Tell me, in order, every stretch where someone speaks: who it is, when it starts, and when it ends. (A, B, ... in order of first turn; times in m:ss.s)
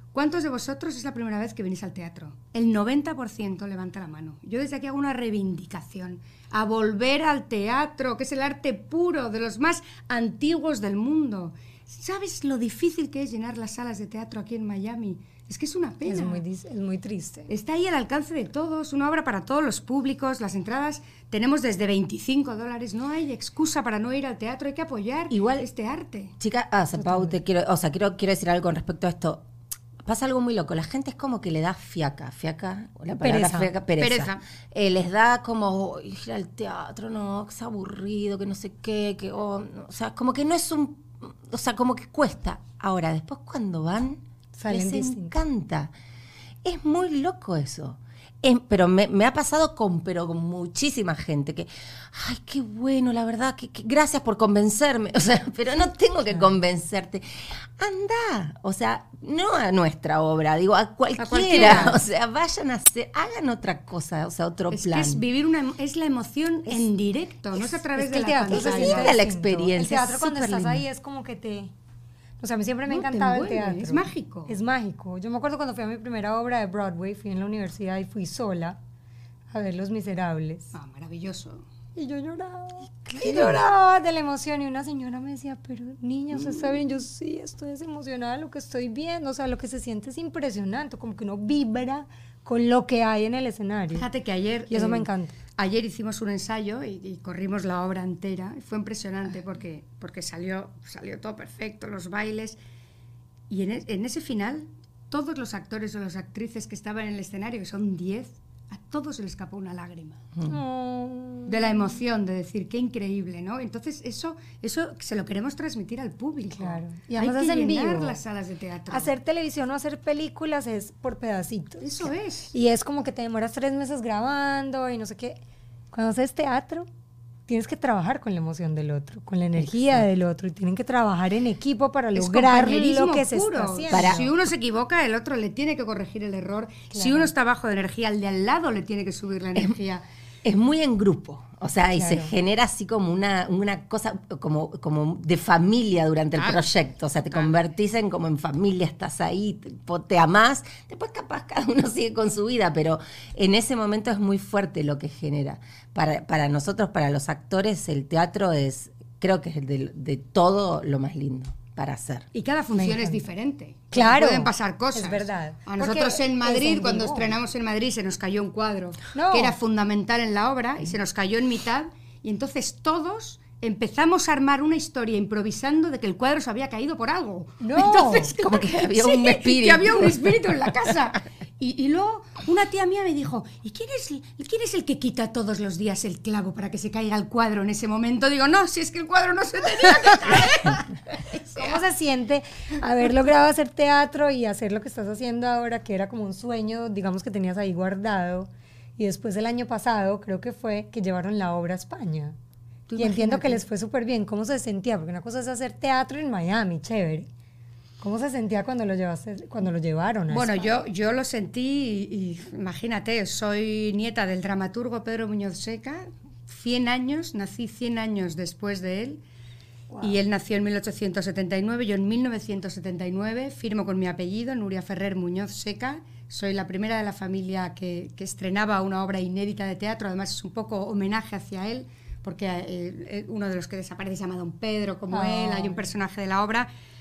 0:00.1-0:16.4 A
0:16.0-0:17.5 B
0:17.5-0:26.3 A
0:25.3-0:25.6 C
0:26.4-0:29.4 C
0:27.0-0:27.3 B
0:30.0-0:45.9 C
0:33.2-0:33.7 B
0:34.0-0:34.4 A
0:44.5-0:45.3 B
0:46.6-1:05.2 C
1:01.2-1:02.0 A
1:04.7-1:09.2 A
1:07.9-1:11.7 B
1:08.5-1:10.8 C
1:12.4-1:18.8 B
1:12.9-1:14.6 A
1:19.5-1:20.7 B
1:20.7-1:21.6 A
1:22.0-1:34.0 B
1:23.1-1:23.6 C
1:33.9-1:42.6 A
1:34.7-1:35.3 B
1:43.5-1:50.2 A
1:50.4-1:51.9 B
1:51.5-1:59.1 A
1:56.5-1:58.2 B
1:58.9-2:05.4 B
2:01.8-2:02.5 A
2:05.9-2:06.9 B
2:07.5-2:14.3 B
2:12.1-2:20.0 A
2:13.9-2:14.3 C
2:16.9-2:17.3 B
2:20.4-2:42.3 C
2:21.9-2:22.3 B
2:26.4-2:26.6 A
2:27.3-2:27.6 A
2:42.3-3:11.8 A
2:42.7-2:43.2 B
2:43.9-2:47.3 B
2:49.1-2:49.5 B
2:57.6-2:58.3 B
2:58.4-3:00.7 C
3:11.6-3:22.4 B
3:22.9-3:23.6 A
3:23.0-3:27.3 B
3:28.0-3:30.7 B
3:30.3-3:39.2 A
3:39.9-3:40.2 B
3:40.0-3:56.7 A
3:55.1-3:55.9 B